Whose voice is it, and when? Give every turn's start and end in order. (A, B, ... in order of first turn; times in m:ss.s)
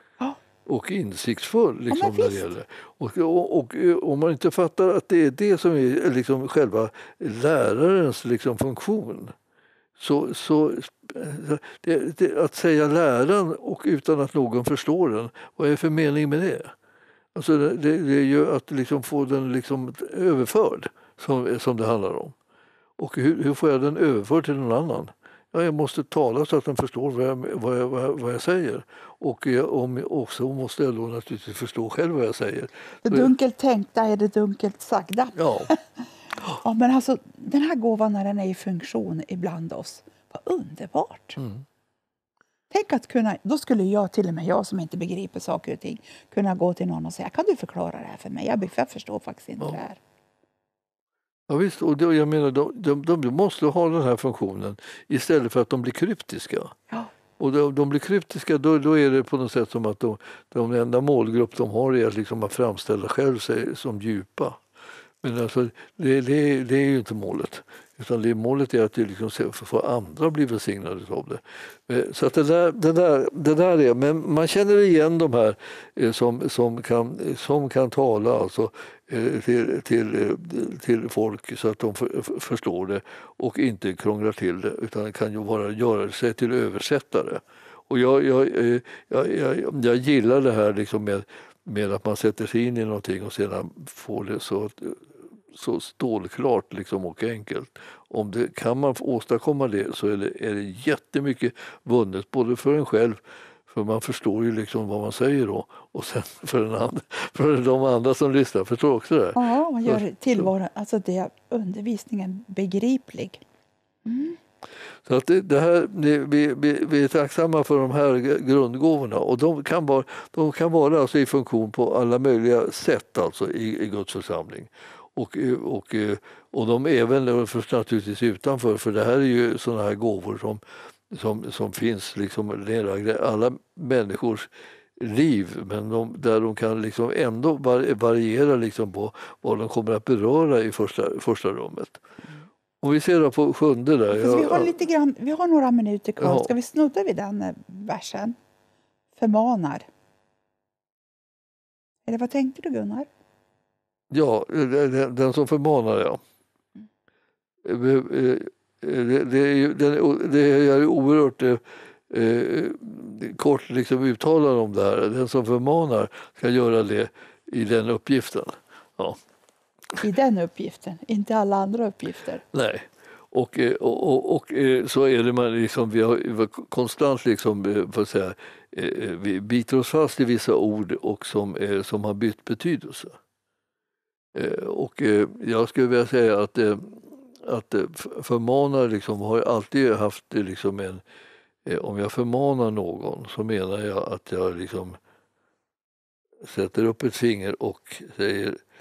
0:00.6-0:09.3 A
0:01.9-0:02.5 B
0:10.0-0:16.7 A
0:17.3-0:22.4 A
0:23.0-0:33.3 A
0:33.0-0:41.4 B
0:35.4-0:35.7 A
0:41.4-0:41.6 A
0:42.7-0:50.0 B
0:51.5-0:56.8 A
0:57.4-1:04.6 A
1:05.2-1:50.5 A
1:49.3-1:53.4 B
1:54.0-1:54.4 B
1:55.0-2:22.0 A
2:22.8-2:24.7 A
2:24.1-2:28.4 B
2:26.2-2:26.5 A
2:29.2-2:29.8 B
2:32.0-2:33.1 B
2:34.1-2:36.2 A
2:37.6-2:49.2 A
2:50.0-2:52.4 B
2:52.5-3:03.2 A
3:04.3-3:11.0 A
3:11.6-3:15.0 A
3:16.4-3:18.6 A